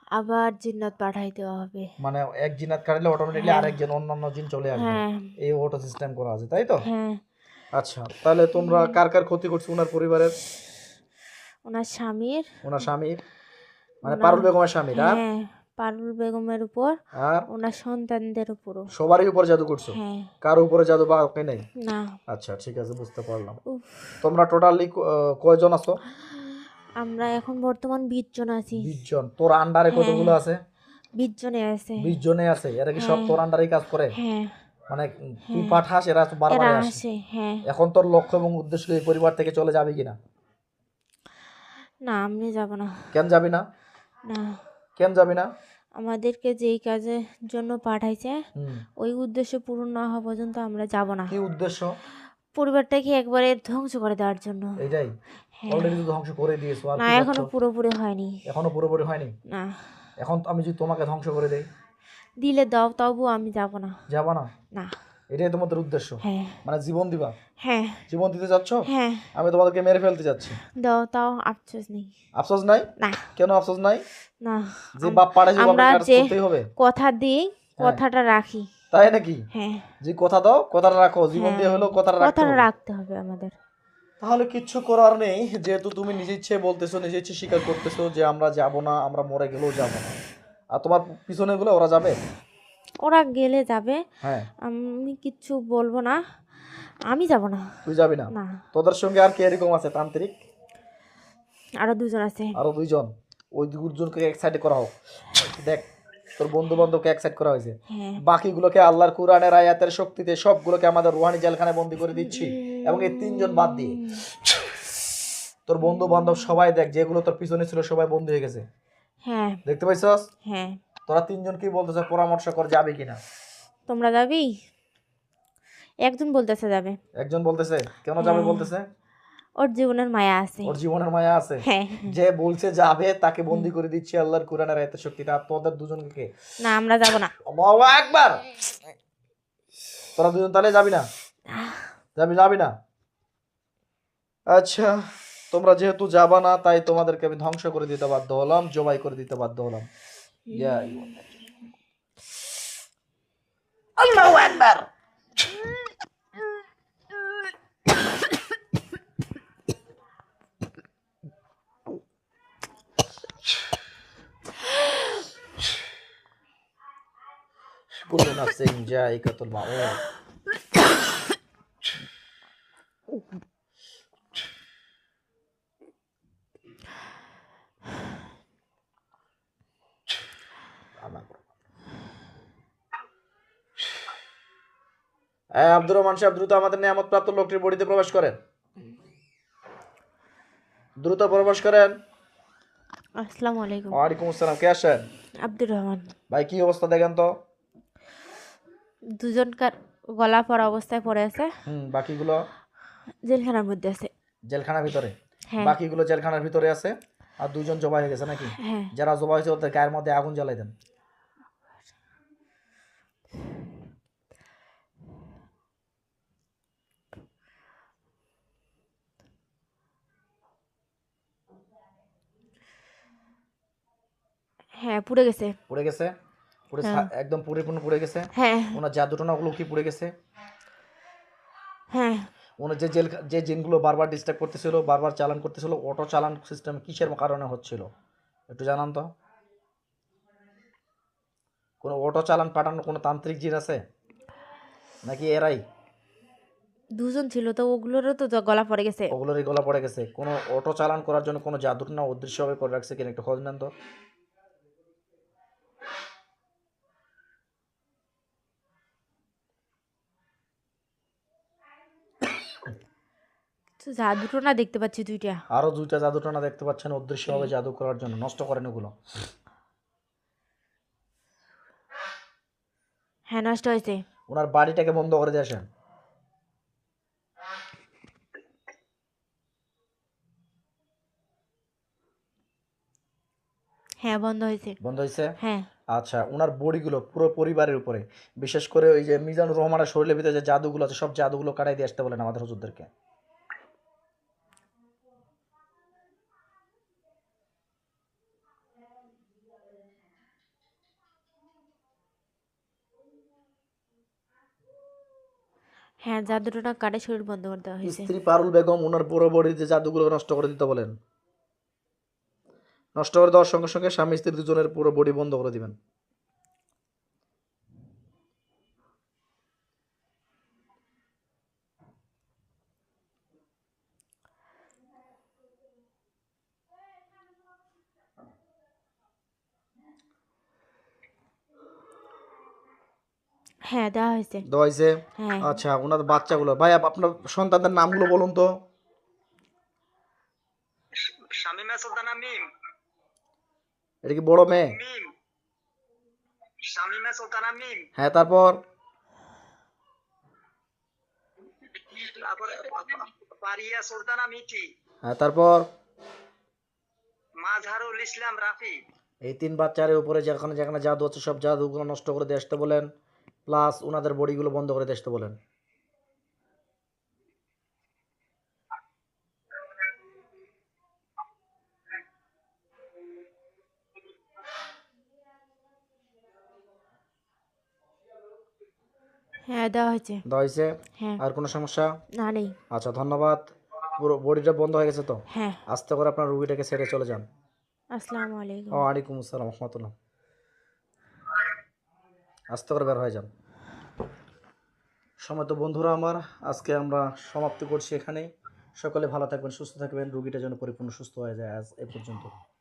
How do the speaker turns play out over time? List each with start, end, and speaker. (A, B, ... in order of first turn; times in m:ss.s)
0:00.2-0:01.9 A
0:02.0-0:06.8 B
0:03.3-0:03.8 A
0:04.7-0:05.3 A
0:06.8-0:07.2 A
0:07.8-0:10.4 B
0:08.6-0:09.0 A
0:11.6-0:12.5 A
0:12.6-0:13.2 B
0:14.0-0:15.2 B
0:14.0-0:16.9 A
0:17.1-0:17.5 B
0:17.5-0:18.9 A
0:18.9-0:21.6 B
0:19.9-0:20.3 A
0:21.8-0:22.2 A
0:22.3-0:23.6 B
0:23.7-0:24.1 A
0:24.2-0:26.0 B
0:26.3-0:28.9 A
0:28.8-0:30.6 B
0:29.9-0:30.4 A
0:31.2-0:32.2 A
0:32.0-0:34.2 B
0:33.0-0:33.4 A
0:34.1-0:34.6 A
0:34.9-0:37.0 B
0:35.5-0:35.8 A
0:36.5-0:37.6 A
0:37.7-0:40.2 B
0:42.0-0:43.1 A
0:43.1-0:43.6 B
0:44.3-0:44.6 A
0:45.0-0:45.5 B
0:46.0-0:48.4 A
0:48.6-0:48.8 B
0:49.0-0:51.3 A
0:51.3-0:51.9 B
0:52.6-0:54.8 A
0:54.8-0:55.1 B
0:55.6-0:56.1 A
0:55.7-0:57.5 B
0:57.0-0:58.4 A
0:58.5-0:59.3 B
0:59.5-0:59.9 A
1:00.2-1:01.7 B
1:02.4-1:04.0 A
1:04.1-1:04.5 B
1:05.3-1:07.3 B
1:06.2-1:06.6 A
1:07.6-1:08.0 A
1:08.1-1:10.6 B
1:08.9-1:09.3 A
1:10.8-1:12.1 A
1:12.4-1:14.0 B
1:13.0-1:13.3 A
1:14.4-1:18.7 A
1:15.0-1:16.7 B
1:18.9-1:19.4 B
1:19.5-1:19.9 A
1:20.0-1:22.7 B
1:21.3-1:23.5 A
1:24.2-1:30.2 B
1:30.7-1:32.2 B
1:33.0-1:34.0 A
1:34.2-1:34.5 B
1:34.6-1:36.2 A
1:37.1-1:37.8 A
1:37.8-1:40.4 B
1:38.3-1:38.6 A
1:41.8-1:42.6 A
1:42.6-1:45.9 B
1:46.4-1:54.0 B
1:47.9-1:48.2 A
1:52.0-1:54.2 A
1:55.7-1:58.7 B
1:55.9-1:56.5 A
1:59.2-1:59.6 A
1:59.7-2:00.2 B
2:00.4-2:00.8 A
2:01.1-2:03.2 B
2:03.9-2:04.5 A
2:06.0-2:07.0 A
2:07.2-2:08.8 B
2:08.2-2:08.7 A
2:09.6-2:10.8 A
2:10.6-2:16.3 B
2:11.6-2:12.2 A
2:16.6-2:17.3 A
2:17.5-2:18.5 B
2:20.2-2:21.1 B
2:21.5-2:21.9 A
2:22.2-2:22.7 B
2:24.5-2:29.9 B
2:30.5-2:31.2 A
2:30.5-2:31.2 B
2:34.0-2:34.9 B
2:47.9-2:50.0 B
3:01.0-3:01.4 B
3:05.6-3:08.4 B
3:11.0-3:11.9 B
3:13.2-3:14.0 A
3:13.9-3:15.1 B
3:15.4-3:16.1 A
3:16.3-3:17.3 B
3:19.2-3:21.5 A
3:21.7-3:22.4 B
3:23.2-3:24.1 A
3:24.5-3:30.7 B
3:25.5-3:25.8 A
3:28.6-3:28.9 A
3:44.8-3:45.6 A
3:45.7-3:46.1 B
3:46.7-3:50.1 B
3:46.8-3:47.1 A
3:48.4-3:48.8 A
3:51.9-3:52.3 A
3:52.6-3:57.9 B
3:58.5-3:59.1 B
4:01.8-4:03.8 B
4:05.0-4:05.6 B
4:07.0-4:09.1 A
4:09.1-4:13.7 B
4:23.8-4:25.4 A
4:25.5-4:28.9 B
4:33.3-4:34.0 A
4:34.3-4:35.7 B
4:44.0-4:44.8 A
4:44.8-4:45.4 B
4:45.4-4:45.7 A
4:45.9-4:52.9 B
5:06.0-5:08.1 A
5:07.8-5:10.9 B
5:13.0-5:15.8 B
5:33.7-5:34.4 A
5:34.4-5:38.5 B
5:35.2-5:35.6 A
5:41.0-5:42.5 C
5:44.0-5:44.8 B
5:44.7-5:45.1 C
5:46.6-5:47.9 C
5:48.0-5:48.6 B
5:51.8-5:54.7 C
5:55.1-5:55.6 B
5:57.4-5:58.8 C
5:59.2-6:02.9 B
6:03.5-6:05.4 B
6:19.5-6:20.2 A
6:20.3-6:22.0 B
6:22.1-6:22.6 A
6:22.7-6:27.3 B
6:25.3-6:25.6 A
6:27.9-6:28.8 A
6:28.7-6:29.9 B
6:32.5-6:33.3 B
6:35.2-6:42.3 B